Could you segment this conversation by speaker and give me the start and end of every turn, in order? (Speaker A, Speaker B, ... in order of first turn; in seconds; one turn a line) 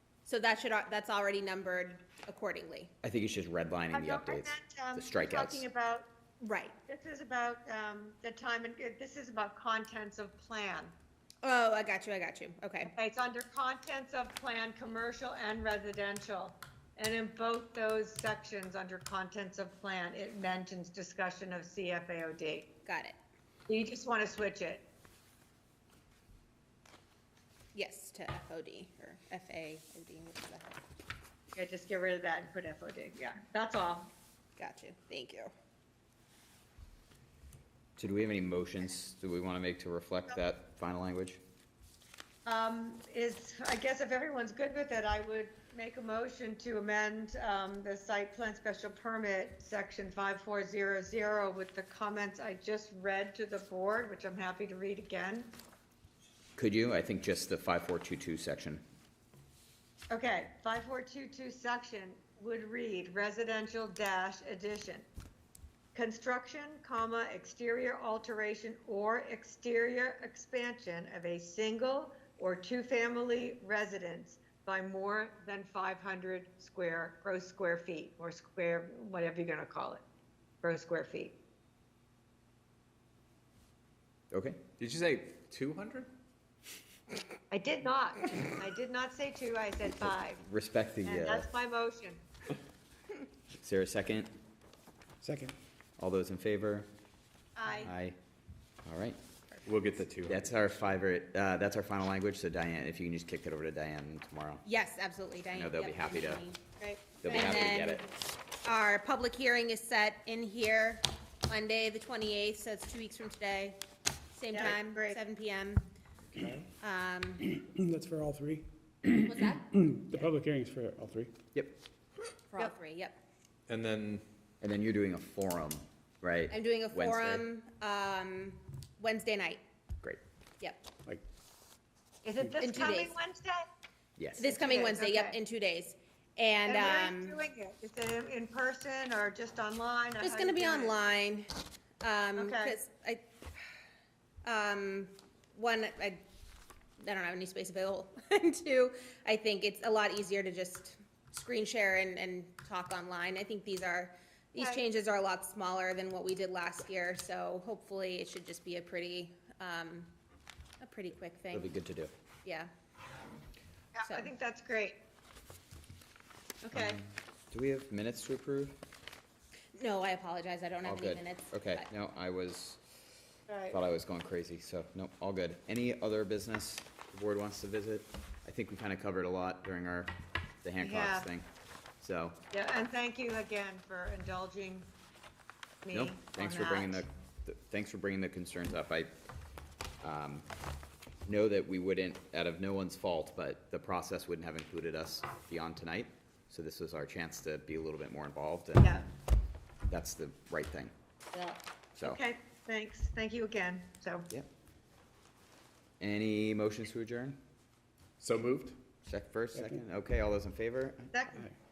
Speaker A: 0.2-2.9
Speaker B: 3.0-5.6
Speaker C: 3.9-6.1
Speaker A: 6.4-6.8
Speaker C: 6.9-10.9
Speaker A: 11.4-12.9
Speaker C: 12.8-22.7
Speaker A: 22.9-23.1
Speaker C: 23.7-24.8
Speaker A: 27.7-30.8
Speaker C: 31.6-34.1
Speaker A: 34.6-35.5
Speaker B: 38.0-41.4
Speaker C: 42.5-55.5
Speaker B: 56.5-58.8
Speaker C: 60.1-65.1
Speaker C: 65.9-80.0
Speaker C: 80.6-81.3
Speaker B: 84.3-84.7
Speaker D: 84.8-86.1
Speaker C: 87.5-90.4
Speaker B: 90.0-91.5
Speaker C: 91.0-92.2
Speaker B: 93.6-94.3
Speaker E: 95.2-95.5
Speaker B: 96.0-96.9
Speaker C: 97.6-97.9
Speaker B: 97.8-98.2
Speaker B: 98.8-99.2
Speaker D: 99.6-100.5
Speaker B: 100.3-104.6
Speaker A: 104.6-106.6
Speaker B: 105.5-106.4
Speaker C: 106.8-107.5
Speaker B: 107.2-108.1
Speaker A: 107.2-108.0
Speaker A: 108.6-113.8
Speaker A: 114.3-115.8
Speaker C: 114.5-115.2
Speaker A: 116.8-117.5
Speaker E: 117.4-121.3
Speaker A: 119.2-120.3
Speaker A: 122.5-123.2
Speaker D: 123.7-124.2
Speaker B: 124.6-127.4
Speaker A: 126.5-129.6
Speaker C: 132.2-133.7
Speaker A: 132.6-133.1
Speaker B: 134.2-134.5
Speaker A: 134.4-137.4
Speaker C: 134.5-135.4
Speaker C: 136.7-141.0
Speaker A: 140.2-141.5
Speaker A: 142.0-143.2
Speaker C: 142.4-142.8
Speaker A: 144.4-146.2
Speaker A: 147.0-160.1
Speaker C: 154.6-154.8
Speaker A: 160.8-161.7
Speaker B: 161.5-162.1
Speaker A: 162.4-162.7
Speaker C: 163.9-165.0
Speaker C: 166.6-167.0
Speaker B: 166.7-168.8
Speaker A: 169.7-171.9
Speaker B: 170.8-172.8
Speaker C: 173.5-173.8
Speaker B: 173.7-181.5
Speaker C: 180.8-181.3
Speaker B: 182.0-182.4
Speaker C: 182.5-184.9
Speaker C: 185.8-187.0
Speaker B: 185.9-189.1
Speaker B: 190.0-190.4
Speaker B: 191.3-199.0
Speaker C: 198.8-199.1
Speaker B: 199.9-200.9
Speaker C: 201.3-204.3
Speaker B: 206.0-207.4
Speaker D: 208.2-208.8
Speaker B: 209.0-211.1
Speaker C: 211.1-211.5